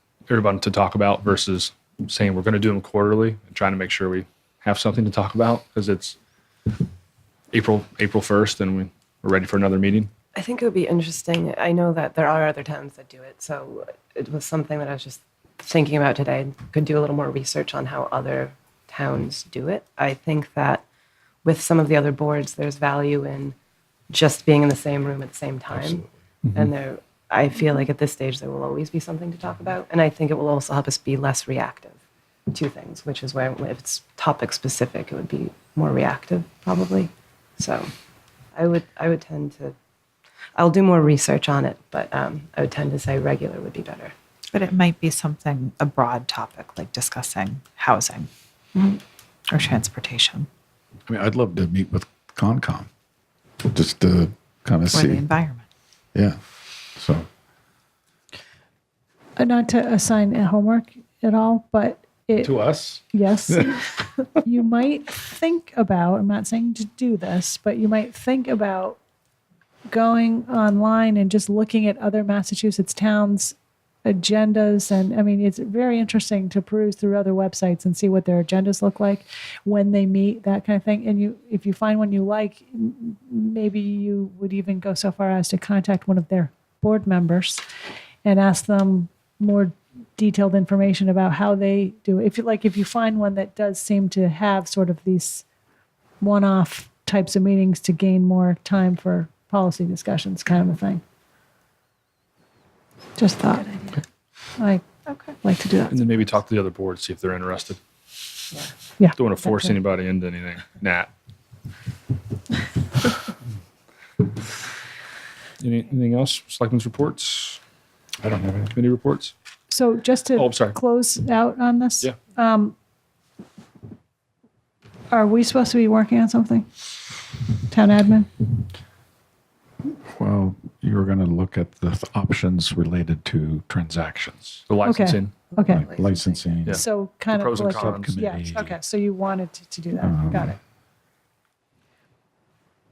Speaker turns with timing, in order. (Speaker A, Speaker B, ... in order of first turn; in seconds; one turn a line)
Speaker A: 0.3-6.2
Speaker A: 7.5-10.1
Speaker B: 10.3-20.8
Speaker B: 21.4-23.5
Speaker B: 24.1-26.0
Speaker C: 25.7-26.5
Speaker B: 26.5-31.9
Speaker B: 32.5-37.9
Speaker B: 38.5-39.7
Speaker B: 40.5-44.1
Speaker D: 44.5-48.3
Speaker D: 49.5-50.5
Speaker C: 51.1-52.9
Speaker C: 53.6-55.2
Speaker D: 54.9-55.6
Speaker C: 57.0-57.3
Speaker E: 59.4-62.6
Speaker C: 62.4-63.7
Speaker E: 63.1-69.0
Speaker E: 69.9-87.6
Speaker E: 88.2-95.5
Speaker E: 96.2-101.0
Speaker E: 103.2-104.0
Speaker E: 104.6-104.8
Speaker D: 105.1-105.3
Speaker E: 105.4-106.4
Speaker A: 105.9-107.8
Speaker E: 109.0-109.8
Speaker A: 109.1-111.1
Speaker A: 115.6-117.6
Speaker C: 118.2-118.8
Speaker A: 118.7-119.3
Speaker E: 119.7-122.7
Speaker A: 120.3-120.8
Speaker E: 125.1-126.7
Speaker E: 127.7-128.3
Speaker C: 130.1-134.6
Speaker A: 134.7-135.3
Speaker E: 134.8-135.9
Speaker B: 135.5-136.4
Speaker C: 135.7-136.8
Speaker A: 136.7-138.1
Speaker E: 136.7-140.6
Speaker C: 137.6-138.8
Speaker C: 140.0-140.5